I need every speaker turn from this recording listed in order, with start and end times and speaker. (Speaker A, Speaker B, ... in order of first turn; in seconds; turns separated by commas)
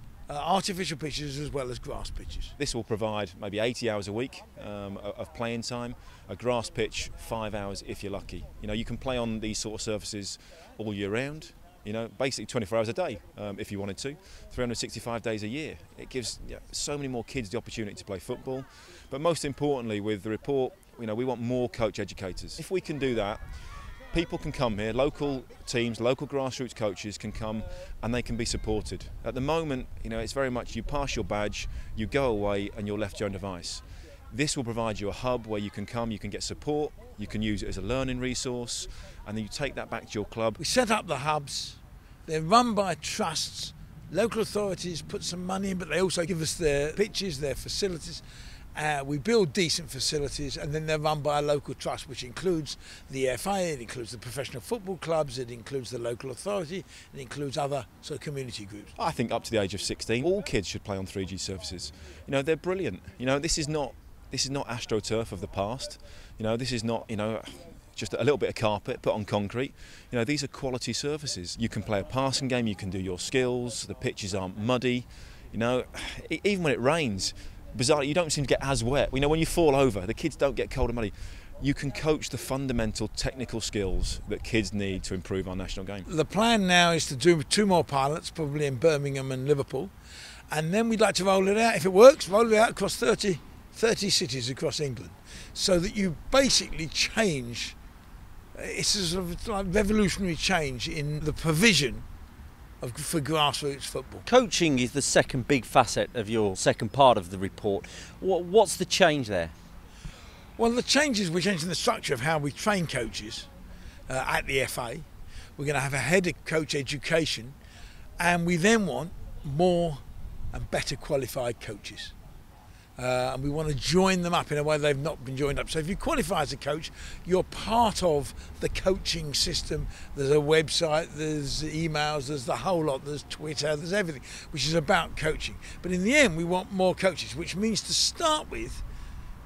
Speaker A: 0.3-2.5, Speaker B: 2.6-23.4, Speaker B: 24.1-40.6, Speaker A: 40.6-48.2, Speaker A: 48.8-59.0, Speaker B: 59.0-86.1, Speaker A: 86.1-89.9, Speaker A: 90.5-97.8, Speaker A: 98.5-102.0, Speaker A: 102.8-104.2, Speaker C: 104.3-109.5, Speaker A: 110.6-113.5, Speaker A: 114.1-117.6, Speaker A: 118.2-122.1, Speaker A: 123.0-138.8